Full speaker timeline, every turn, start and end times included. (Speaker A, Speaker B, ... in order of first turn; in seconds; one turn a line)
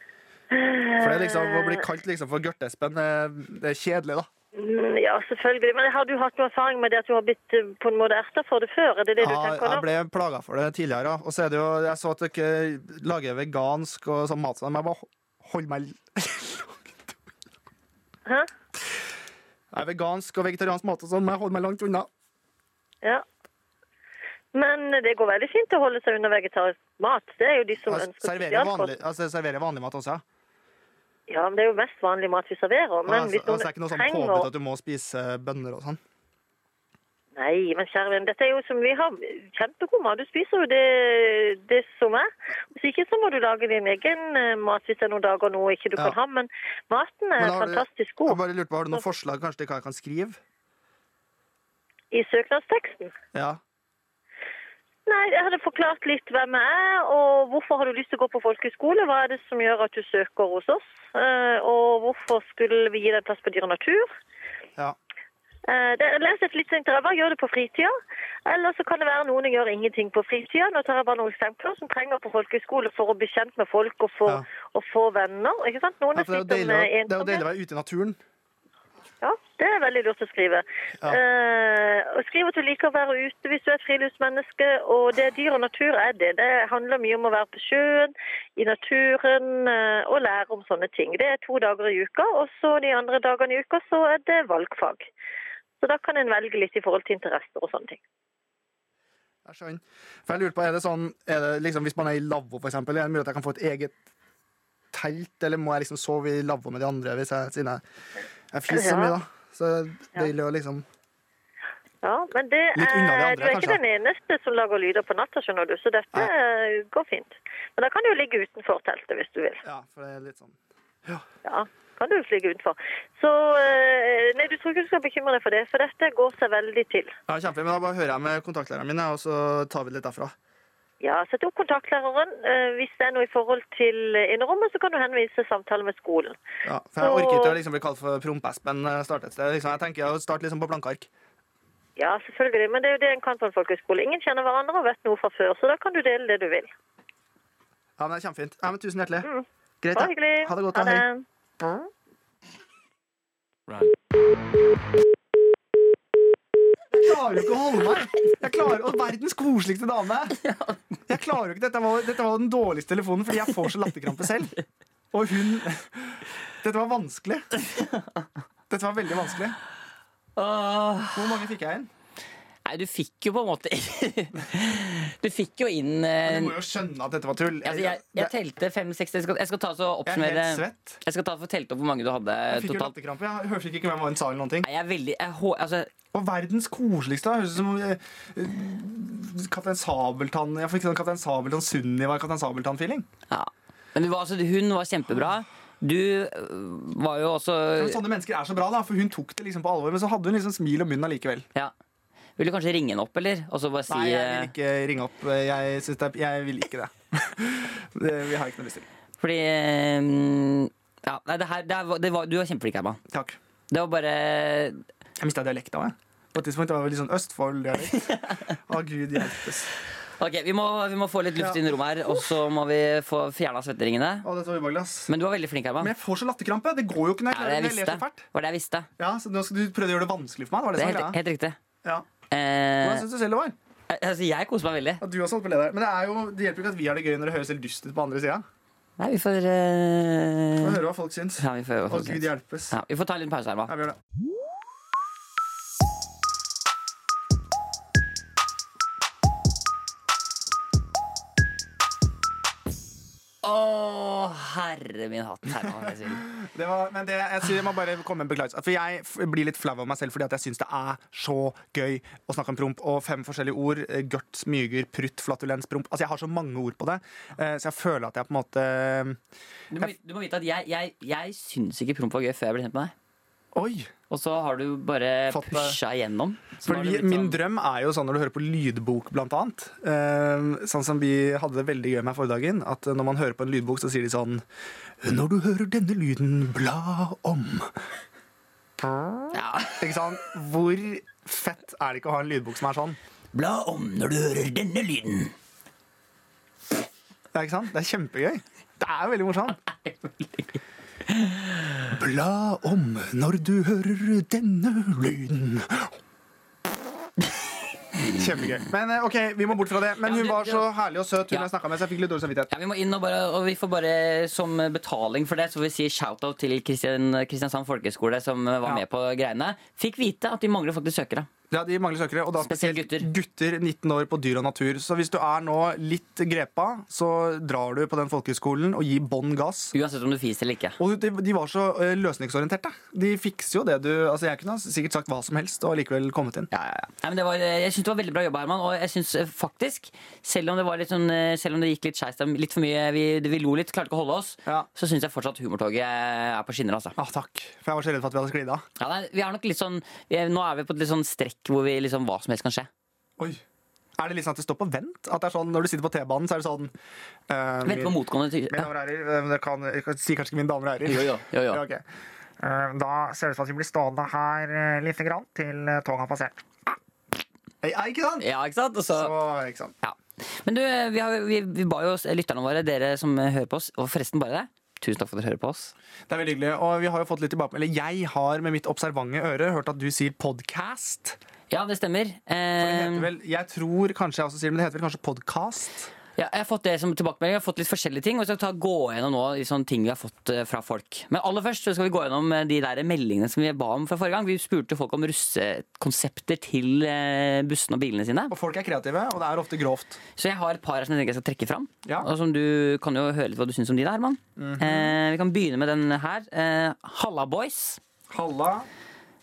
Speaker A: 0.5-1.8
Speaker B: 1.0-4.3
Speaker A: 4.5-9.8
Speaker B: 9.2-17.1
Speaker B: 19.7-22.1
Speaker A: 24.5-28.9
Speaker B: 27.9-30.2
Speaker A: 31.3-34.5
Speaker B: 33.1-36.0
Speaker A: 37.4-48.4
Speaker B: 47.4-50.4
Speaker A: 52.1-53.1
Speaker B: 53.3-53.6
Speaker A: 55.0-64.1
Speaker A: 65.7-67.9
Speaker A: 68.5-77.4
Speaker B: 76.1-78.2
Speaker A: 79.2-95.0
Speaker A: 95.8-98.0
Speaker B: 99.4-103.9
Speaker B: 104.9-107.8
Speaker B: 108.5-110.8
Speaker A: 108.7-109.1
Speaker A: 112.0-119.6
Speaker B: 112.7-113.8
Speaker B: 119.6-121.2
Speaker A: 121.4-127.1
Speaker B: 127.3-130.3
Speaker A: 131.0-136.4
Speaker B: 136.6-141.1
Speaker A: 137.0-137.6
Speaker A: 142.0-146.7
Speaker B: 148.0-149.3
Speaker A: 149.2-151.2
Speaker B: 149.8-151.0
Speaker B: 156.9-160.4
Speaker C: 160.4-160.8
Speaker B: 161.1-164.5
Speaker B: 165.1-167.5
Speaker C: 167.6-168.2
Speaker B: 168.7-169.6
Speaker C: 170.3-171.4
Speaker B: 171.1-171.9
Speaker C: 172.6-176.5
Speaker B: 176.2-178.3
Speaker C: 177.6-182.9
Speaker B: 180.1-181.0
Speaker B: 182.5-184.7
Speaker C: 184.6-185.9
Speaker B: 186.1-193.1
Speaker C: 193.3-198.0
Speaker B: 197.8-201.4
Speaker C: 202.4-204.5
Speaker B: 203.9-208.8
Speaker C: 209.2-213.0
Speaker B: 213.1-213.4
Speaker C: 213.7-214.8
Speaker B: 215.2-219.7
Speaker C: 217.9-218.4
Speaker C: 220.2-224.3
Speaker B: 221.3-221.6
Speaker B: 224.2-225.1
Speaker C: 225.1-225.9
Speaker B: 225.8-228.2
Speaker C: 227.3-228.9
Speaker B: 229.0-231.2
Speaker C: 230.8-231.6
Speaker C: 232.3-233.1
Speaker B: 232.8-233.6
Speaker C: 233.9-235.0
Speaker B: 235.0-238.4
Speaker C: 239.0-240.8
Speaker B: 240.6-242.8
Speaker C: 241.4-243.7
Speaker B: 243.7-244.0
Speaker C: 253.4-256.3
Speaker B: 256.2-269.2
Speaker C: 269.7-272.9
Speaker B: 273.5-273.9
Speaker C: 274.1-277.4
Speaker B: 275.3-275.8
Speaker B: 276.6-284.4
Speaker B: 285.0-287.7
Speaker B: 288.9-293.0
Speaker C: 289.3-289.9
Speaker C: 293.3-295.3
Speaker B: 297.3-299.6
Speaker C: 299.6-301.7
Speaker B: 301.9-306.0
Speaker B: 307.9-312.5
Speaker C: 310.0-310.7
Speaker C: 312.5-321.3
Speaker B: 321.5-329.7
Speaker C: 322.4-323.1
Speaker C: 329.7-330.8
Speaker B: 330.8-336.5
Speaker C: 336.5-347.0
Speaker B: 347.0-348.6
Speaker C: 348.8-352.7
Speaker B: 354.0-356.7
Speaker B: 357.3-358.0
Speaker C: 357.6-358.7
Speaker B: 358.5-361.8
Speaker C: 360.9-361.6
Speaker B: 362.4-366.7
Speaker B: 367.6-368.2
Speaker C: 368.2-369.1
Speaker B: 368.9-369.7
Speaker C: 369.8-375.7
Speaker B: 376.1-381.2
Speaker C: 381.5-383.1
Speaker B: 382.6-385.9
Speaker C: 386.2-398.3
Speaker B: 398.3-400.0
Speaker C: 400.2-407.8
Speaker B: 404.4-404.9
Speaker B: 408.1-408.7